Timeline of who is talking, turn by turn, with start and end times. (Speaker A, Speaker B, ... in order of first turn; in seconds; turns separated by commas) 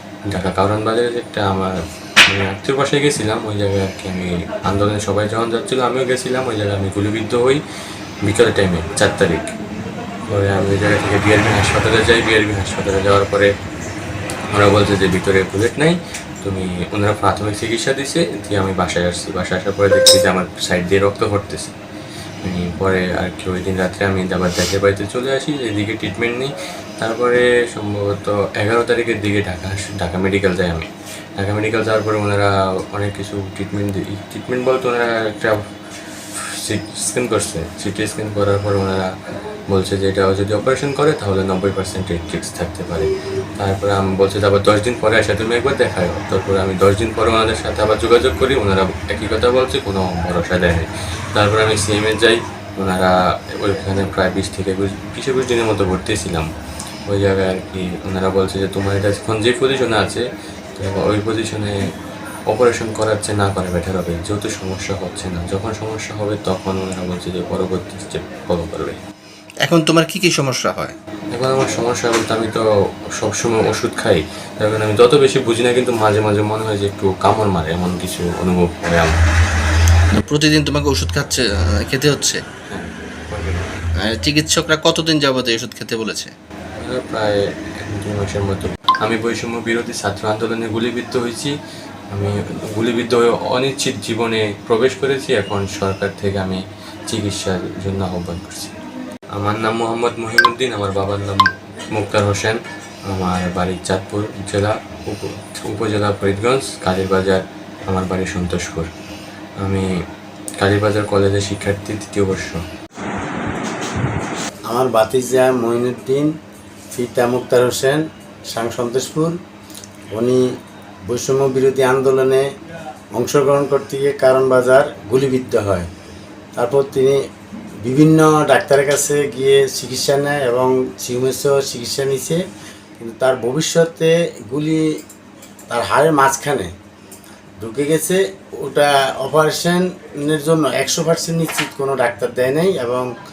Speaker A: 0.3-7.6, Speaker A: 8.2-9.5, Speaker A: 10.3-13.5, Speaker A: 14.5-21.7, Speaker A: 22.4-35.6, Speaker A: 36.4-39.1, Speaker A: 39.7-56.5, Speaker A: 57.1-60.2, Speaker A: 60.8-61.9, Speaker A: 62.5-69.0, Speaker B: 69.6-70.9, Speaker A: 71.3-72.7, Speaker A: 73.2-79.2, Speaker B: 80.1-82.4, Speaker A: 82.7-83.7, Speaker B: 84.0-86.3, Speaker A: 86.8-91.5, Speaker A: 92.1-98.8, Speaker A: 99.3-108.9, Speaker A: 109.6-110.0, Speaker A: 110.6-112.6, Speaker C: 114.7-116.3, Speaker C: 116.9-119.4, Speaker C: 120.1-120.5, Speaker C: 121.1-122.5, Speaker C: 123.2-125.9, Speaker C: 126.6-127.2, Speaker C: 127.8-132.4, Speaker C: 133.0-134.9, Speaker C: 135.7-136.7, Speaker C: 137.6-143.1